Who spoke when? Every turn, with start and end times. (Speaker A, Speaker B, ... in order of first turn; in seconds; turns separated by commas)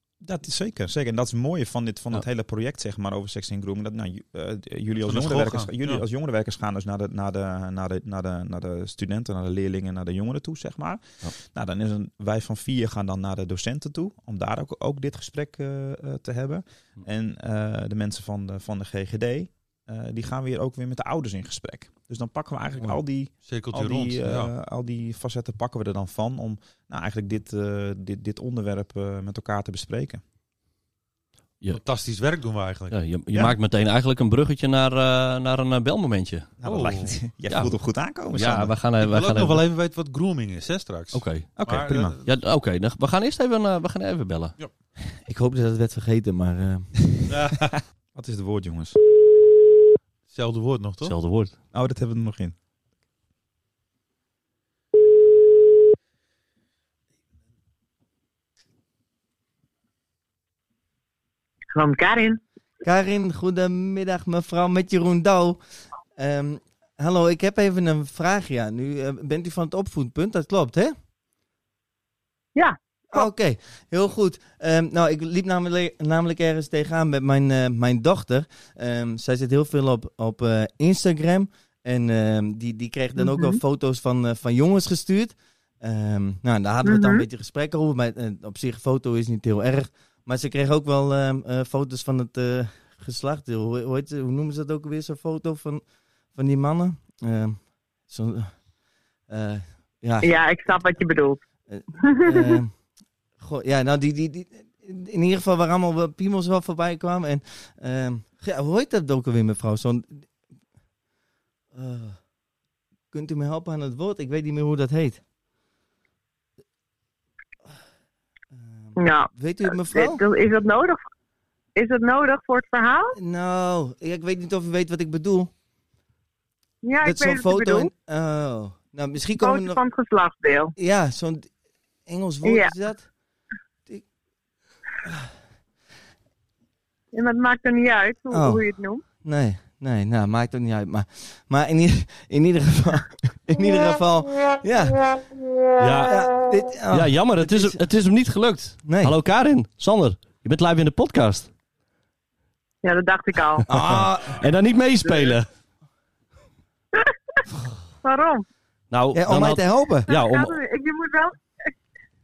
Speaker A: 0.2-30.2, Speaker B: 5.0-6.0, Speaker B: 23.3-24.5, Speaker B: 31.7-33.0, Speaker C: 32.9-36.5, Speaker A: 36.6-38.7, Speaker B: 36.6-37.2, Speaker C: 37.5-39.6, Speaker B: 39.0-42.3, Speaker C: 41.1-41.5, Speaker A: 41.5-42.2, Speaker C: 42.2-44.6, Speaker D: 45.1-47.1, Speaker B: 47.3-47.8, Speaker A: 48.1-49.0, Speaker B: 50.3-51.1, Speaker C: 51.0-51.5, Speaker A: 51.7-52.5, Speaker E: 61.7-62.4, Speaker D: 62.8-65.6, Speaker D: 66.1-70.9, Speaker E: 72.5-73.3, Speaker D: 73.1-98.6, Speaker E: 83.2-83.6, Speaker E: 86.8-87.2, Speaker D: 99.3-101.0, Speaker E: 100.2-101.4, Speaker D: 101.7-102.8, Speaker E: 102.0-102.6, Speaker D: 103.4-110.3, Speaker D: 111.7-112.2, Speaker D: 113.1-115.2, Speaker D: 118.5-120.2, Speaker E: 119.0-121.0, Speaker E: 121.7-123.2, Speaker D: 123.1-125.5, Speaker E: 126.8-127.9, Speaker D: 127.0-129.8, Speaker E: 129.4-130.7, Speaker D: 130.8-131.5, Speaker D: 132.1-133.1, Speaker E: 132.4-132.7, Speaker E: 137.1-139.0, Speaker D: 138.3-138.6, Speaker D: 139.2-145.3, Speaker C: 145.8-146.3, Speaker D: 146.0-147.8, Speaker C: 146.9-151.5, Speaker D: 148.8-149.1, Speaker E: 152.8-153.7, Speaker D: 153.7-154.5, Speaker C: 153.7-155.5, Speaker E: 155.0-155.3, Speaker E: 158.0-158.4, Speaker C: 158.9-160.6, Speaker D: 159.1-160.1, Speaker E: 160.1-161.4